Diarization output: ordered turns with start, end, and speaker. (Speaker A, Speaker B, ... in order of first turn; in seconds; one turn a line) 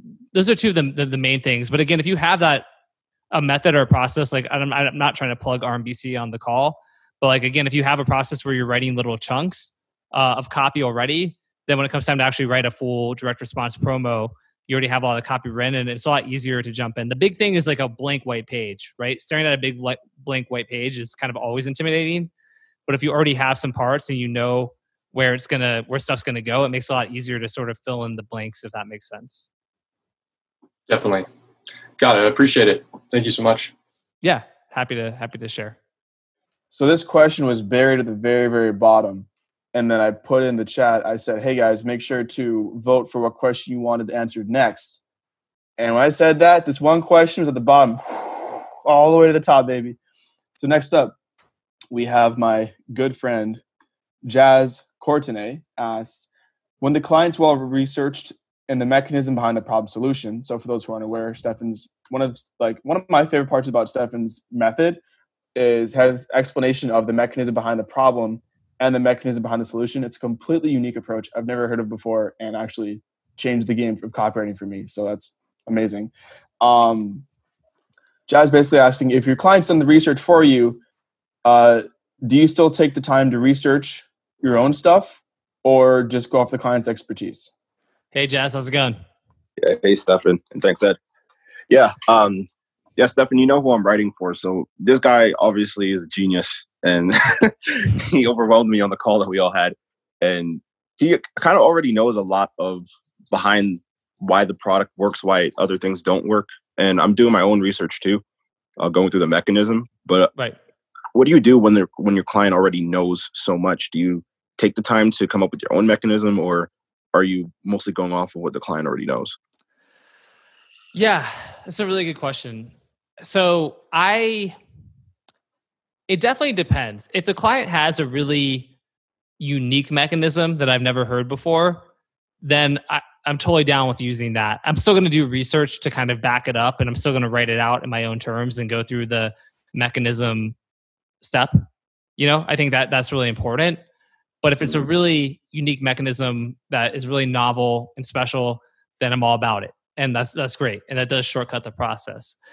Speaker A: 0.3-2.6
Speaker A: 3.3-22.3
Speaker A: 22.9-29.5
Speaker B: 30.9-31.2
Speaker B: 32.0-33.7
Speaker A: 34.2-35.8
Speaker C: 36.7-45.0
Speaker C: 45.8-50.0
Speaker C: 50.6-51.1
Speaker C: 51.9-53.6
Speaker C: 54.2-56.3
Speaker C: 56.8-65.0
Speaker C: 65.5-77.2
Speaker C: 78.3-80.8
Speaker C: 81.4-87.5
Speaker A: 88.1-89.0
Speaker D: 89.6-91.0
Speaker D: 91.7-108.2
Speaker D: 108.8-110.3
Speaker D: 111.1-119.3
Speaker A: 120.9-124.6
Speaker A: 126.1-128.7
Speaker A: 129.4-131.8
Speaker A: 132.4-140.5
Speaker A: 141.2-141.7
Speaker A: 142.2-143.8
Speaker A: 144.4-152.3